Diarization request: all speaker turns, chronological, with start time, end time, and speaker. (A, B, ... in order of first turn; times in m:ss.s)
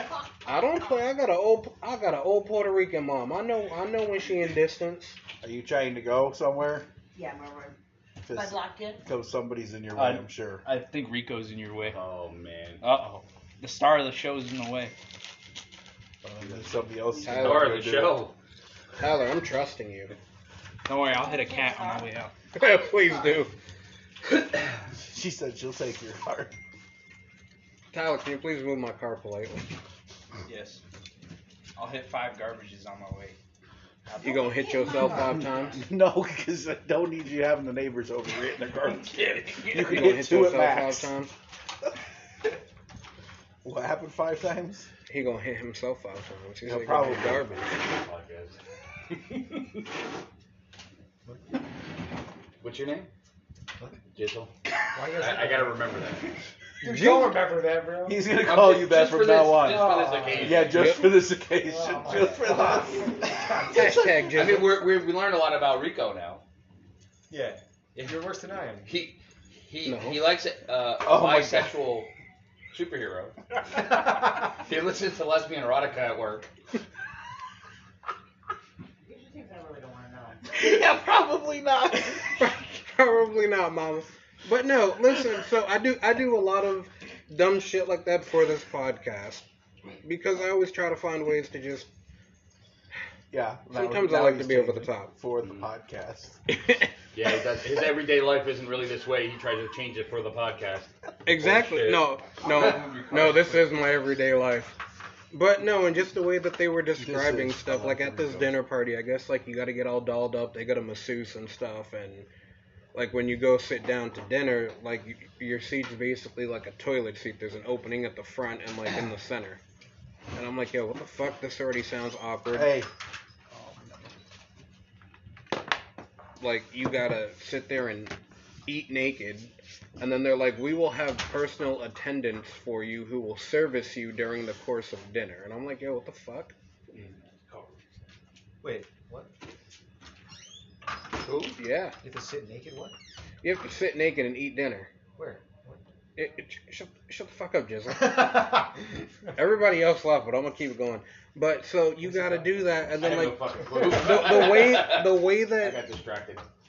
0:00.4-0:05.2 A
0:05.4-0:06.9 B
0:07.1-0:07.8 C
0:08.2-0:10.6 B
0:08.3-0:09.0 C
0:09.9-0:12.0 D
0:11.9-0:12.8 E
0:12.8-0:14.9 D
0:16.2-0:18.2 B
0:17.2-0:17.8 A
0:17.2-0:18.3 E
0:19.0-0:20.1 A
0:20.9-0:22.3 D
0:21.1-0:22.1 C
0:22.5-0:23.5 A
0:25.0-0:26.5 B
0:27.9-0:29.7 A
0:30.4-0:30.8 D
0:31.8-0:33.4 D
0:34.0-0:35.4 D
0:34.2-0:35.8 A
0:35.7-0:41.1 B
0:38.9-0:40.1 D
0:39.8-0:41.3 A
0:43.6-0:44.9 B
0:45.1-0:47.7 A
0:46.6-0:47.5 B
0:47.5-0:48.6 E
0:49.1-0:49.8 E
0:52.6-0:53.1 E
0:54.1-0:54.5 E
0:54.9-0:55.9 F
0:55.1-0:56.3 E
0:56.8-0:57.4 B
0:56.8-0:58.2 F
0:58.0-1:04.0 B
0:58.4-1:01.0 E
0:59.6-1:00.7 F
1:00.7-1:01.2 A
1:01.6-1:04.1 F
1:03.6-1:04.8 A
1:04.3-1:06.4 E
1:07.3-1:09.0 F
1:08.8-1:12.1 E
1:09.8-1:10.3 A
1:11.0-1:11.8 B
1:12.7-1:16.5 E
1:19.0-1:20.5 C
1:20.5-1:22.4 B
1:22.2-1:29.4 A
1:30.0-1:31.9 A
1:33.3-1:36.4 B
1:33.7-1:35.1 A
1:36.5-1:36.9 A
1:37.1-1:43.7 E
1:41.2-1:44.8 A
1:45.3-1:52.3 A
1:47.0-1:48.5 B
1:52.9-1:59.6 A
2:00.3-2:02.8 A
2:02.5-2:02.9 B
2:06.4-2:16.5 A
2:16.9-2:17.7 E
2:18.6-2:19.3 F
2:21.2-2:21.6 E
2:21.6-2:22.0 A
2:22.0-2:23.0 F
2:23.4-2:24.9 A
2:25.2-2:25.8 F
2:26.2-2:28.7 A
2:28.1-2:28.4 F
2:29.3-2:35.8 A
2:32.0-2:32.6 F
2:33.0-2:36.4 E